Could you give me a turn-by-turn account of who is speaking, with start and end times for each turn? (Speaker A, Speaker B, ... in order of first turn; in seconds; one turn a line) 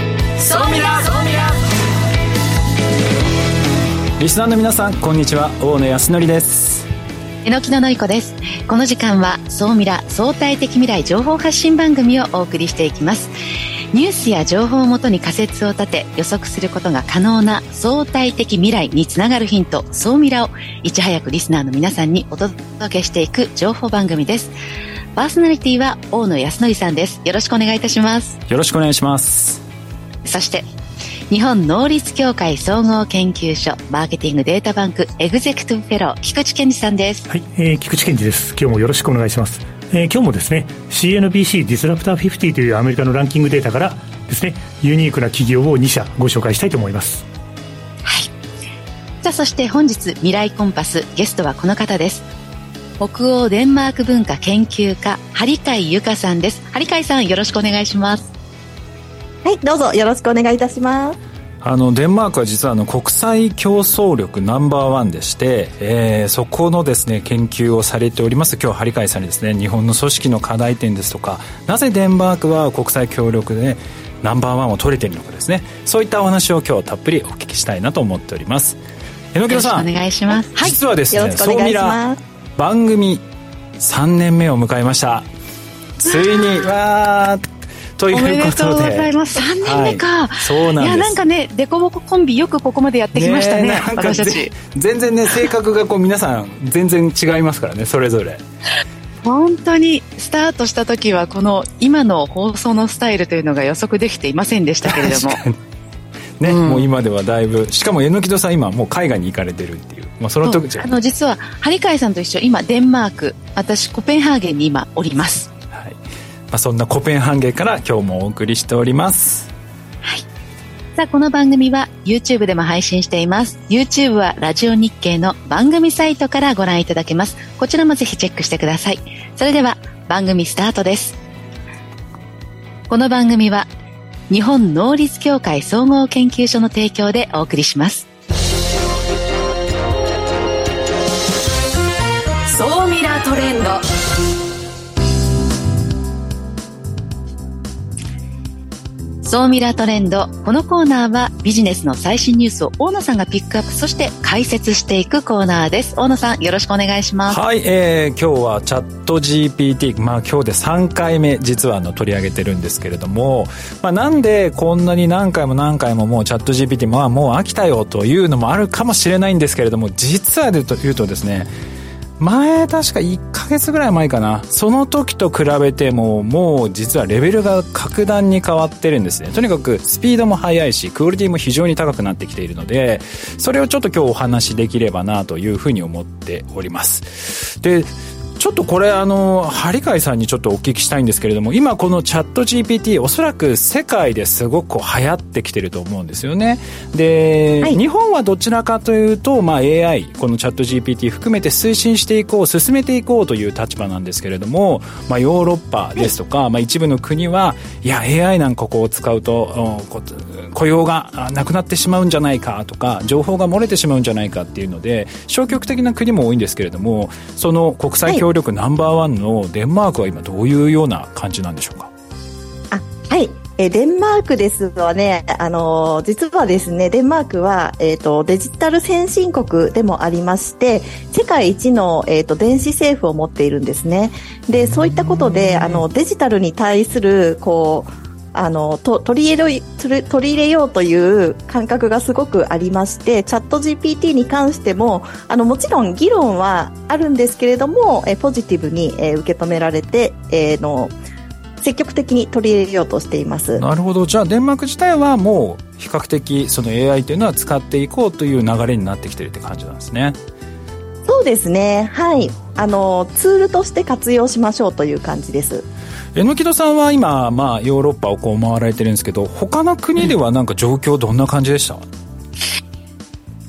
Speaker A: 0.4-1.5
Speaker B: 4.2-6.9
Speaker C: 7.4-13.3
Speaker C: 13.9-24.5
Speaker C: 25.1-28.4
Speaker B: 28.5-29.6
Speaker C: 30.2-30.7
Speaker C: 31.3-37.2
Speaker D: 37.3-47.2
Speaker C: 48.0-48.3
Speaker C: 49.2-52.2
Speaker C: 53.0-58.3
Speaker E: 59.4-61.2
Speaker B: 61.6-78.8
Speaker B: 79.3-79.9
Speaker C: 79.5-80.5
Speaker B: 80.5-82.0
Speaker E: 80.6-82.2
Speaker B: 82.6-83.2
Speaker B: 83.8-85.3
Speaker B: 86.0-91.2
Speaker C: 88.1-94.5
Speaker B: 93.1-98.4
Speaker C: 99.2-105.4
Speaker B: 104.8-105.5
Speaker B: 106.4-110.9
Speaker C: 106.4-106.8
Speaker C: 110.4-115.5
Speaker B: 115.7-116.0
Speaker B: 116.5-119.5
Speaker C: 121.0-131.2
Speaker C: 132.9-133.7
Speaker C: 134.3-138.1
Speaker A: 142.4-143.8
Speaker C: 149.2-157.4
Speaker B: 157.3-171.5
Speaker B: 172.2-221.9
Speaker E: 222.7-250.9
Speaker B: 234.7-235.8
Speaker E: 251.6-253.6
Speaker B: 253.6-260.2
Speaker E: 261.1-265.6
Speaker B: 266.1-271.8